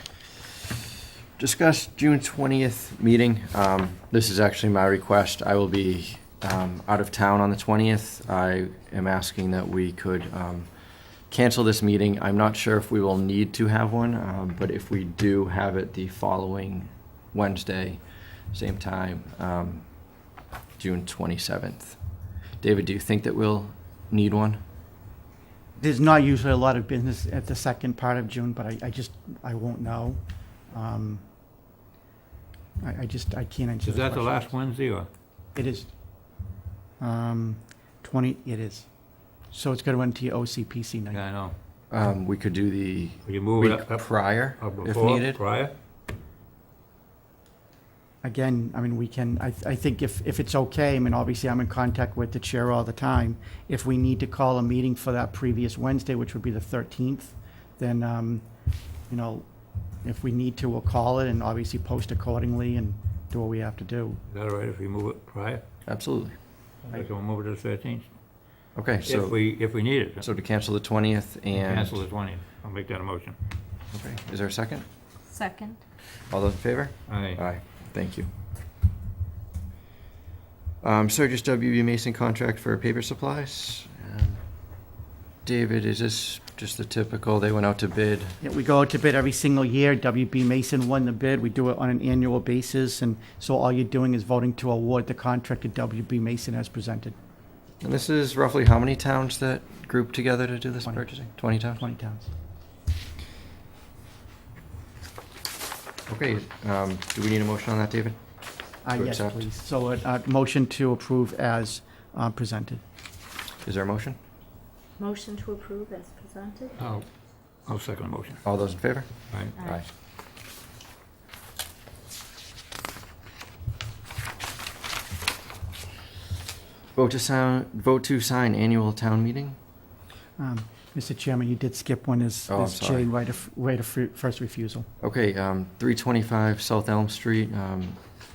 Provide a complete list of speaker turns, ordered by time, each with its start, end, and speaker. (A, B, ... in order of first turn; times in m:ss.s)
0:01.4-0:10.7 A
0:11.3-0:18.0 A
0:18.5-0:19.8 A
0:20.8-0:22.0 A
0:22.6-0:24.6 A
0:25.8-0:30.2 B
0:30.7-0:31.2 B
0:32.8-0:34.5 B
0:33.8-0:35.1 C
0:35.5-0:35.9 B
0:37.0-0:38.9 B
0:39.5-0:41.2 B
0:41.1-0:41.5 C
0:41.9-0:45.4 A
0:43.2-0:45.7 C
0:48.2-0:58.4 B
0:59.1-0:59.4 B
1:00.0-1:04.2 B
1:04.3-1:05.6 C
1:05.8-1:06.4 A
1:06.8-1:08.1 C
1:08.7-1:09.4 A
1:09.0-1:10.2 C
1:10.2-1:12.0 A
1:11.5-1:13.4 C
1:13.9-1:14.8 A
1:15.3-1:15.8 D
1:16.3-1:18.3 A
1:17.1-1:17.4 C
1:20.8-1:24.4 A
1:25.4-1:28.4 A
1:28.4-1:37.2 B
1:37.8-1:41.8 A
1:41.7-1:42.3 B
1:46.1-1:48.2 A
1:48.8-1:52.8 B
1:48.9-1:49.5 A
1:53.6-1:54.2 A
1:55.0-1:56.8 D
1:56.8-1:57.0 C
1:57.6-1:58.4 C
1:58.4-1:59.9 A
1:59.6-1:59.8 D
2:07.0-2:09.6 A
2:10.4-2:14.9 B
2:12.5-2:13.1 A
2:15.0-2:18.0 A